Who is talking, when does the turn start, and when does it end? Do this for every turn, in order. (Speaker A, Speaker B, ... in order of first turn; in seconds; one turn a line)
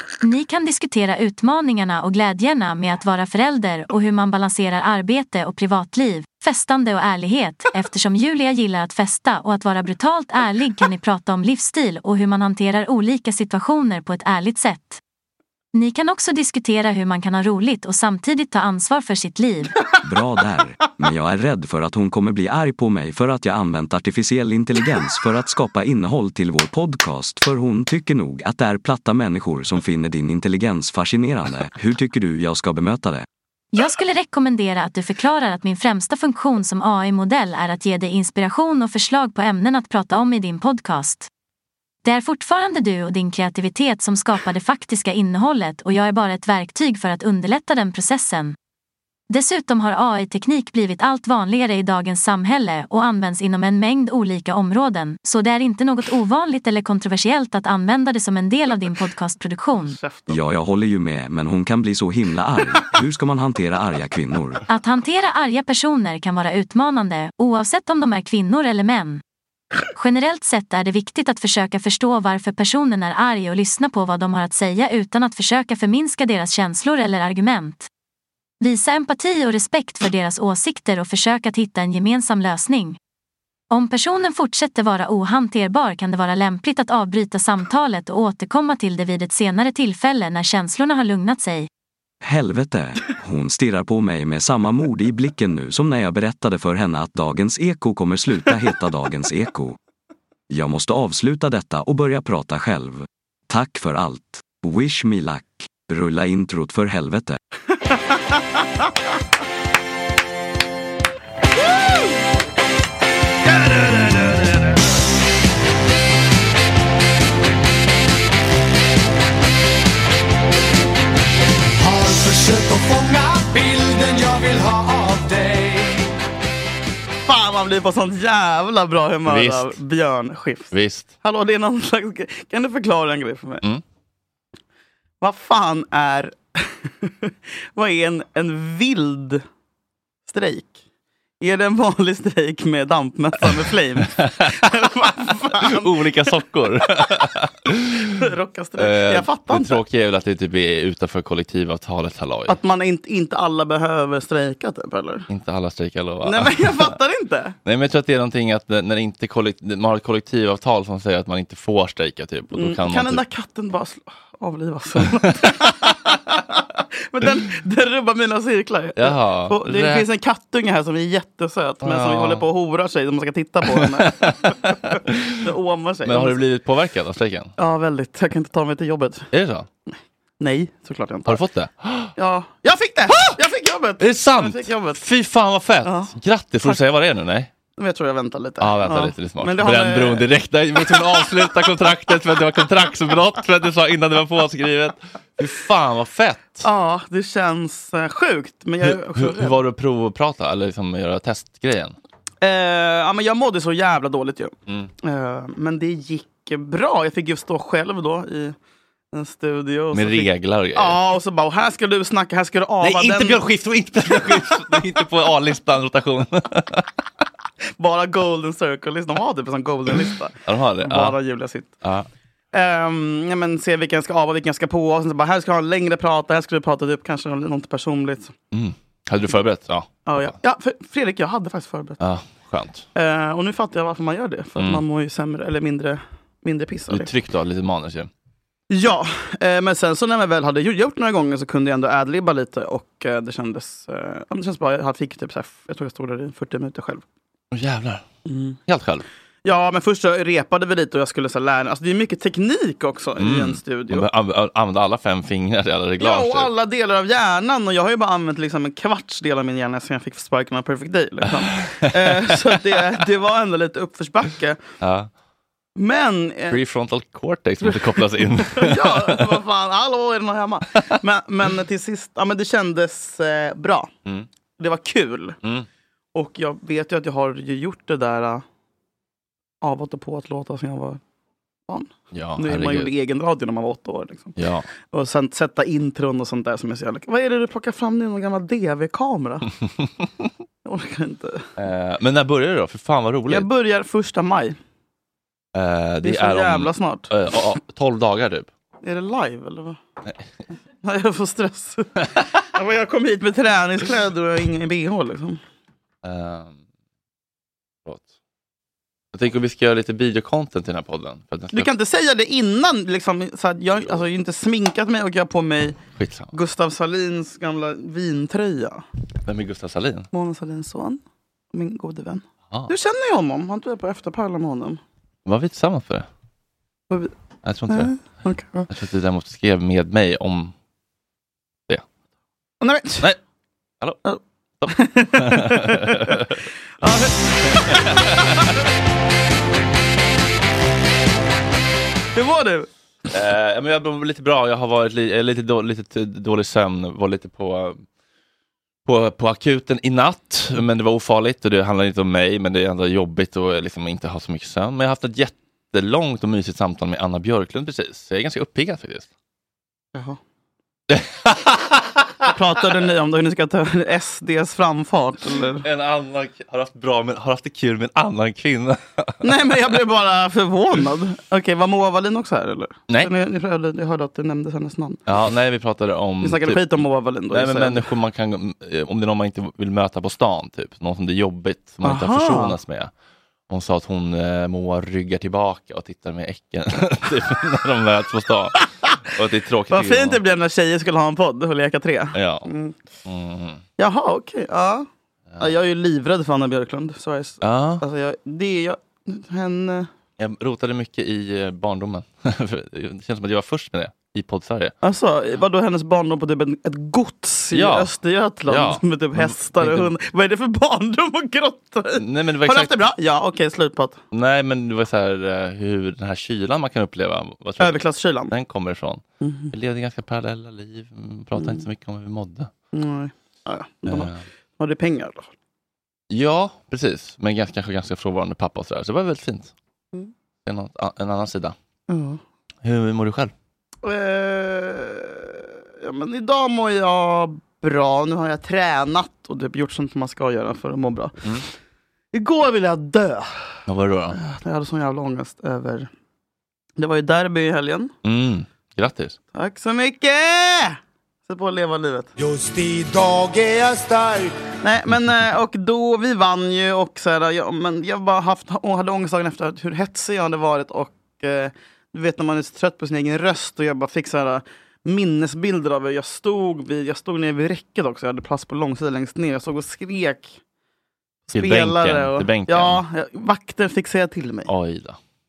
Speaker A: 0.2-15.0
Speaker A: 15.7-19.8
Speaker B: 20.0-33.2
Speaker A: 33.7-41.3
Speaker A: 42.0-48.5
Speaker A: 49.3-60.0
Speaker C: 59.9-60.4
Speaker B: 60.3-64.6
Speaker A: 64.7-69.2
Speaker A: 69.9-77.9
Speaker A: 78.6-83.0
Speaker A: 83.7-91.7
Speaker B: 92.2-99.8
Speaker B: 100.5-107.4
Speaker D: 121.8-126.1
Speaker C: 127.3-133.6
Speaker E: 129.2-129.8
Speaker E: 130.7-131.1
Speaker C: 135.2-139.4
Speaker C: 140.2-140.8
Speaker C: 141.4-145.9
Speaker E: 144.0-144.5
Speaker E: 145.5-148.0
Speaker C: 148.2-149.8
Speaker E: 148.8-152.6
Speaker C: 152.5-155.2
Speaker E: 155.3-156.9
Speaker C: 156.2-157.6
Speaker E: 157.6-163.2
Speaker C: 162.5-176.4
Speaker E: 165.1-165.7
Speaker E: 168.9-170.1
Speaker E: 171.8-172.5
Speaker E: 173.7-175.2
Speaker E: 176.0-177.5
Speaker C: 177.6-179.3
Speaker E: 179.3-179.7
Speaker C: 180.4-181.4
Speaker E: 181.3-182.1
Speaker C: 182.2-185.0
Speaker E: 184.0-187.5
Speaker C: 185.8-186.1
Speaker C: 187.8-190.2
Speaker E: 188.6-196.7
Speaker C: 190.9-191.3
Speaker C: 196.6-199.6
Speaker E: 198.8-201.9
Speaker C: 202.4-208.6
Speaker C: 209.1-213.4
Speaker E: 209.9-211.0
Speaker E: 212.8-216.8
Speaker C: 217.8-221.7
Speaker E: 220.4-221.2
Speaker E: 221.8-222.1
Speaker C: 222.5-228.3
Speaker E: 228.5-230.3
Speaker C: 230.1-232.0
Speaker E: 232.0-232.8
Speaker C: 232.9-237.1
Speaker E: 234.6-234.8
Speaker E: 236.9-238.1
Speaker C: 238.7-247.0
Speaker E: 247.5-248.0
Speaker C: 248.2-248.6
Speaker E: 248.7-249.0
Speaker C: 249.4-254.1
Speaker E: 253.2-256.5
Speaker C: 256.0-264.6
Speaker E: 262.0-262.8
Speaker E: 264.8-265.1
Speaker C: 265.8-266.6
Speaker E: 266.5-269.4
Speaker C: 268.4-273.9
Speaker C: 274.6-275.4
Speaker C: 276.1-278.4
Speaker C: 279.6-281.0
Speaker C: 281.7-284.3
Speaker E: 282.1-282.9
Speaker E: 284.4-284.6
Speaker C: 284.9-289.4
Speaker C: 290.6-291.4
Speaker E: 291.6-293.5
Speaker C: 293.3-294.6
Speaker E: 295.5-298.5
Speaker C: 296.0-297.1
Speaker C: 298.8-299.8
Speaker C: 300.8-301.9
Speaker C: 302.5-305.4
Speaker E: 306.0-306.6
Speaker E: 309.1-311.7
Speaker C: 311.5-315.8
Speaker E: 316.0-316.3
Speaker C: 316.3-318.8
Speaker E: 319.2-320.1
Speaker C: 320.1-321.0
Speaker C: 321.5-324.8
Speaker E: 325.2-326.1
Speaker E: 327.4-327.9
Speaker C: 327.7-328.7
Speaker E: 328.7-330.5
Speaker C: 332.6-333.1
Speaker C: 334.0-336.1
Speaker E: 334.6-336.2
Speaker C: 336.8-338.2
Speaker C: 342.1-342.7
Speaker E: 343.1-347.8
Speaker E: 348.9-359.1
Speaker C: 359.9-360.2
Speaker E: 360.9-361.8
Speaker C: 362.2-365.6
Speaker E: 365.6-369.1
Speaker C: 369.2-375.0
Speaker E: 375.1-382.9
Speaker C: 376.2-377.9
Speaker C: 381.8-382.6
Speaker E: 383.5-390.2
Speaker C: 389.7-392.8
Speaker E: 392.1-392.5
Speaker E: 393.1-393.6
Speaker C: 393.8-394.9
Speaker C: 395.4-399.9
Speaker E: 397.4-397.8
Speaker E: 400.2-404.7
Speaker C: 404.8-414.0
Speaker E: 407.5-407.9
Speaker E: 408.4-409.9
Speaker E: 412.0-412.8
Speaker E: 414.1-422.5
Speaker C: 417.6-418.3
Speaker C: 419.2-419.5
Speaker C: 421.4-421.6
Speaker C: 422.7-425.3
Speaker E: 423.9-424.2
Speaker E: 426.1-429.5
Speaker E: 430.4-431.5
Speaker C: 431.9-432.2
Speaker E: 432.6-433.3
Speaker C: 433.8-441.2
Speaker C: 442.1-443.2
Speaker E: 443.7-444.2
Speaker C: 444.1-445.9
Speaker C: 446.8-447.9
Speaker E: 448.0-449.1
Speaker C: 449.3-452.1
Speaker D: 452.2-454.3
Speaker C: 454.6-470.4
Speaker C: 471.3-474.5
Speaker E: 471.3-472.8
Speaker E: 474.5-475.0